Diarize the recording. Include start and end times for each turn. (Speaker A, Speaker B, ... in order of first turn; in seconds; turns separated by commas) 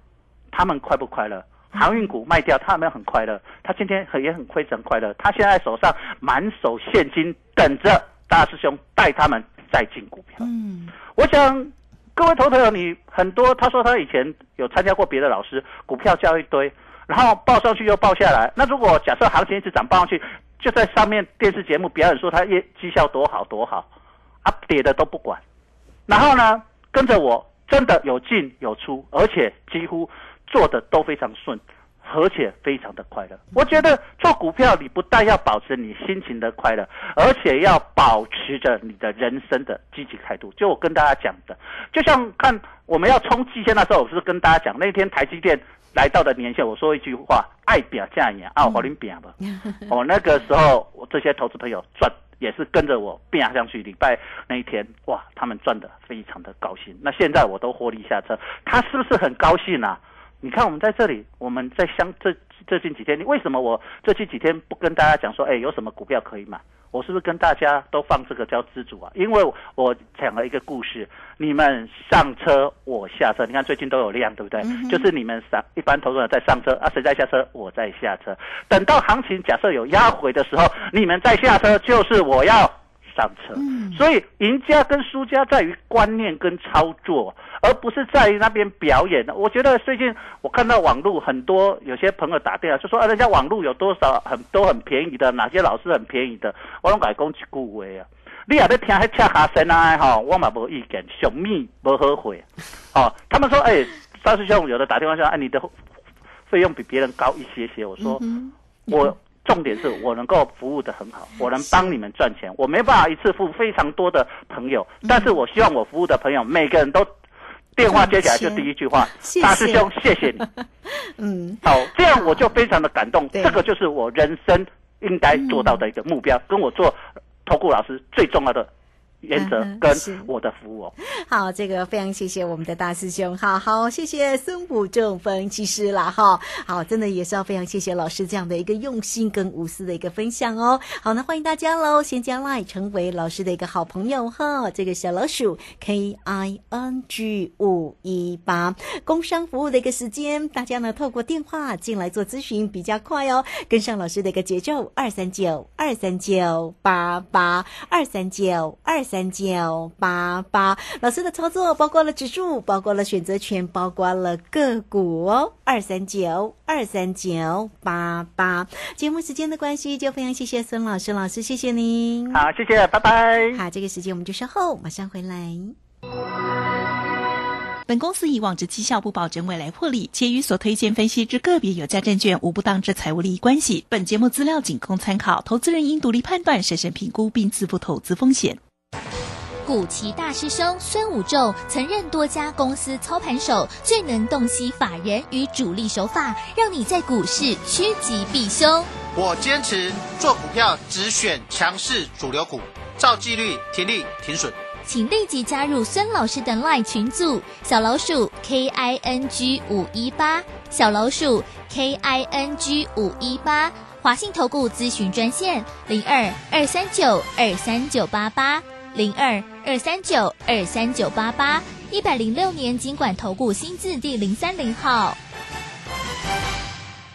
Speaker A: 0.5-10.4, Speaker B: 1.7-2.0, Speaker B: 10.4-10.9, Speaker A: 11.1-23.9, Speaker A: 24.4-25.4, Speaker A: 26.1-49.3, Speaker B: 48.6-48.9, Speaker B: 49.4-49.9, Speaker A: 49.9-105.7, Speaker B: 74.6-75.0, Speaker B: 83.5-84.0, Speaker A: 106.5-108.2, Speaker B: 108.0-109.1, Speaker A: 108.9-117.1, Speaker B: 111.6-112.0, Speaker B: 115.0-115.3, Speaker A: 117.8-120.4, Speaker B: 117.9-122.6, Speaker A: 121.6-128.7, Speaker B: 123.3-123.6, Speaker B: 125.3-125.8, Speaker A: 129.2-130.9, Speaker B: 129.3-130.3, Speaker B: 131.0-172.4, Speaker A: 172.3-173.6, Speaker B: 173.5-175.8, Speaker C: 177.8-188.6, Speaker D: 189.6-198.9, Speaker E: 199.1-204.6, Speaker D: 204.8-225.2